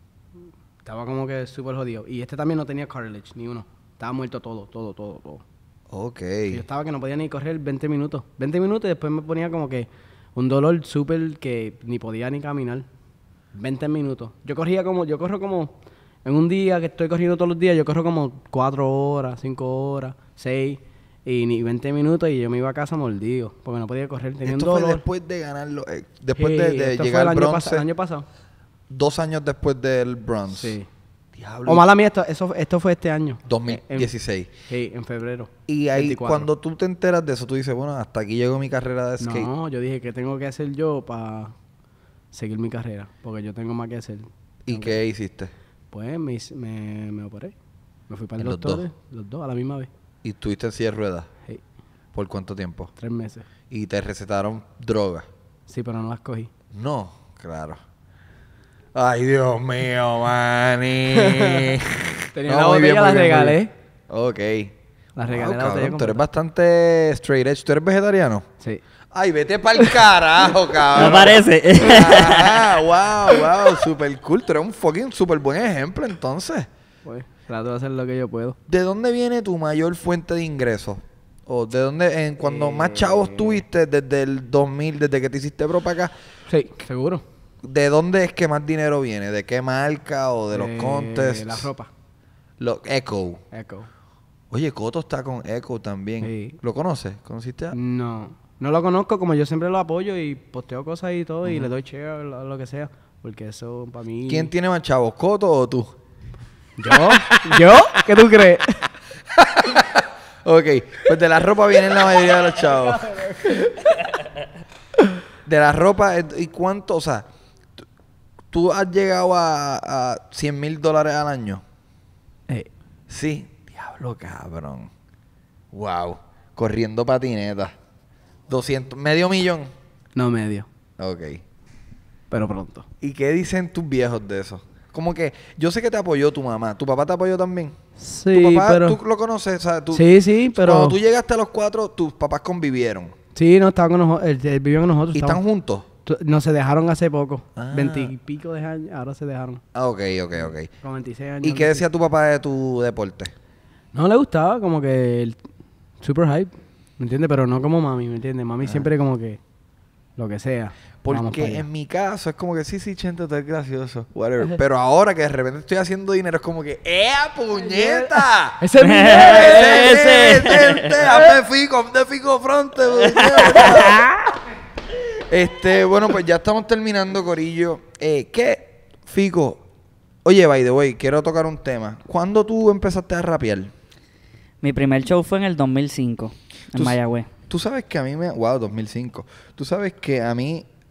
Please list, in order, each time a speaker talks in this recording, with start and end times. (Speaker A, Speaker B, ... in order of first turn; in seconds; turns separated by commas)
Speaker A: 0.8-5.4, Speaker B: 5.9-6.6, Speaker A: 6.5-12.8, Speaker A: 13.5-15.7, Speaker A: 16.2-25.0, Speaker B: 24.4-27.8, Speaker A: 26.4-28.2, Speaker B: 28.9-30.8, Speaker A: 30.5-30.9, Speaker B: 31.3-31.9, Speaker A: 31.6-34.1, Speaker B: 33.5-34.5, Speaker A: 34.7-36.5, Speaker B: 35.7-39.5, Speaker A: 39.2-41.5, Speaker A: 42.3-45.0, Speaker B: 44.6-45.5, Speaker A: 45.9-47.5, Speaker A: 48.1-49.9, Speaker B: 48.4-48.8, Speaker B: 50.2-51.3, Speaker B: 52.1-52.9, Speaker A: 53.0-53.5, Speaker B: 53.7-55.2, Speaker A: 55.7-56.5, Speaker B: 56.7-57.8, Speaker B: 58.9-64.7, Speaker A: 61.1-61.7, Speaker A: 62.3-63.7, Speaker A: 65.2-66.2, Speaker B: 65.2-68.5, Speaker B: 69.1-76.7, Speaker C: 70.9-72.8, Speaker A: 71.1-71.3, Speaker A: 77.0-78.6, Speaker B: 78.7-86.1, Speaker A: 82.4-83.5, Speaker A: 86.5-87.2, Speaker B: 87.6-91.7, Speaker A: 90.5-91.9, Speaker B: 92.6-93.4, Speaker A: 93.5-93.9, Speaker B: 94.5-97.8, Speaker A: 96.2-96.6, Speaker A: 97.7-104.5, Speaker B: 101.4-101.7, Speaker B: 104.3-105.9, Speaker A: 106.8-108.9, Speaker B: 106.9-108.2, Speaker B: 109.3-113.0, Speaker A: 112.3-114.0, Speaker B: 115.4-117.3, Speaker B: 118.5-121.6, Speaker B: 123.1-124.9, Speaker B: 125.7-127.7, Speaker B: 128.5-129.7, Speaker A: 130.2-130.7, Speaker B: 131.0-131.4, Speaker A: 132.3-132.9, Speaker B: 133.0-137.8, Speaker A: 138.0-139.0, Speaker B: 138.3-143.1, Speaker A: 139.9-141.0, Speaker A: 143.3-145.4, Speaker B: 145.1-145.8, Speaker A: 146.1-149.6, Speaker B: 147.6-148.1, Speaker B: 149.7-150.7, Speaker A: 150.8-151.8, Speaker B: 151.4-153.3, Speaker A: 153.9-155.4, Speaker A: 156.0-159.4, Speaker A: 160.2-161.7, Speaker B: 161.0-174.1, Speaker A: 167.5-170.6, Speaker C: 168.8-171.0, Speaker C: 173.2-173.9, Speaker B: 175.3-179.6, Speaker B: 180.2-183.7, Speaker C: 184.6-187.3, Speaker B: 187.5-190.7